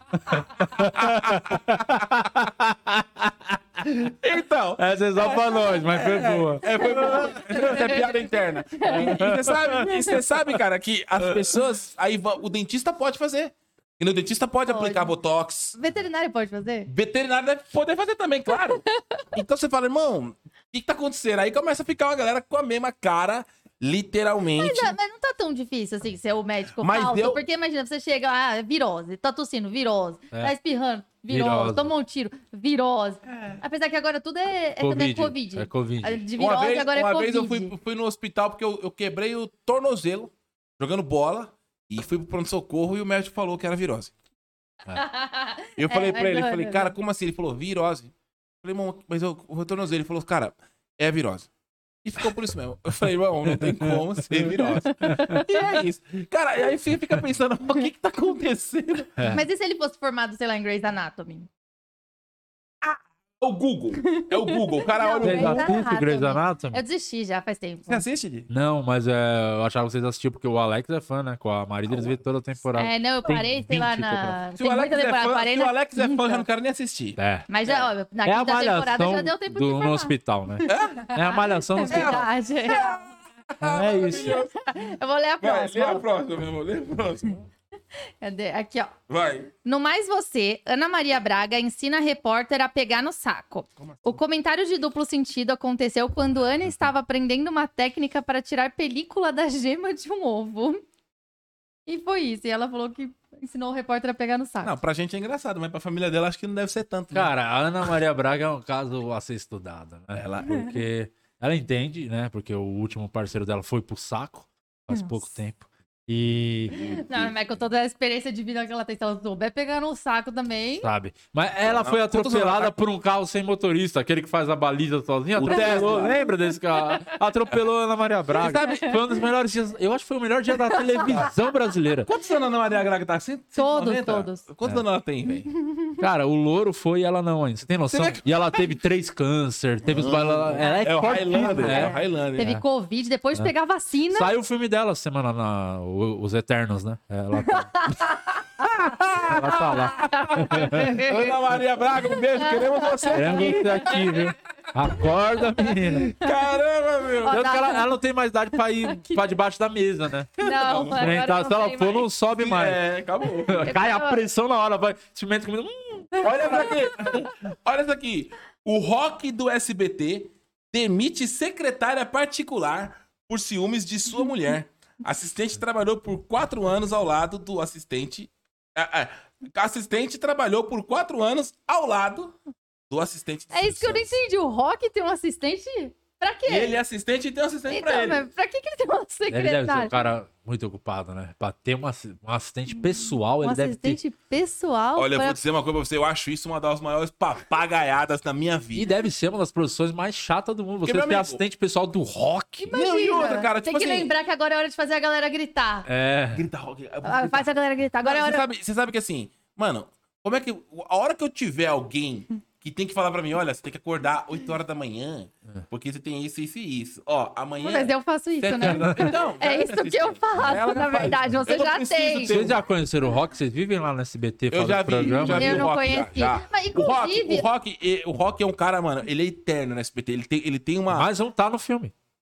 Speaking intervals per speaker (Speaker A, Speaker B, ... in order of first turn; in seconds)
Speaker A: 0.2-4.1, 4.8-7.8, 8.9-9.9, 31.3-31.9, 34.8-36.2, 53.5-55.4, 59.2-59.4, 65.2-66.8, 68.5-74.0, 77.2-77.5, 78.2-82.3, 83.6-84.4, 107.1-117.0, 120.8-132.1, 136.0-142.6, 144.1-147.8, 149.3-150.9, 153.1-156.1, 157.3-160.3, 161.0-162.9, 163.5-166.6, 189.3-194.0, 198.8-202.7, 205.9-206.4, 218.6-219.0, 222.3-225.7, 230.9-231.9
Speaker B: 0.8-2.0, 4.2-15.8, 16.9-24.9, 26.8-27.4, 36.4-44.1, 45.8-51.5, 52.0-59.2, 62.8-65.8, 67.9-68.5, 71.9-72.2, 73.3-77.9, 80.7-81.0, 81.9-84.7, 85.4-87.5, 89.1-89.5, 104.6-107.3, 110.1-110.7, 116.7-117.4, 121.6-122.8, 125.3-126.2, 128.4-128.9, 132.1-135.5, 137.9-138.2, 139.8-142.5, 148.6-154.2, 155.9-157.6, 160.4-161.1, 162.4-163.7, 166.2-182.4, 182.9-184.1, 186.5-188.2, 195.0-198.9, 200.8-201.4, 202.7-204.1, 206.3-207.5, 208.0-222.6, 224.5-231.1
Speaker C: 6.7-8.1, 8.8-10.2, 14.7-15.1, 15.8-16.9, 18.5-19.2, 24.6-37.7, 45.0-46.9, 54.6-55.6, 59.3-61.5, 64.0-68.0, 72.8-76.4, 77.5-83.0, 84.1-86.1, 88.2-89.0, 89.7-100.8, 101.9-104.8, 110.5-110.7, 114.9-115.2, 116.8-120.9, 125.5-126.3, 128.5-129.1, 130.7-131.2, 133.6-134.5, 135.5-136.0, 140.6-144.3, 147.5-148.4, 150.0-151.3, 152.3-153.6, 157.2-157.9, 158.8-159.3, 160.4-162.1, 163.6-164.2, 166.2-167.2, 183.5-186.8, 187.7-190.0, 192.8-195.4, 202.7-205.9, 207.0-208.4, 217.6-222.4, 225.1-227.5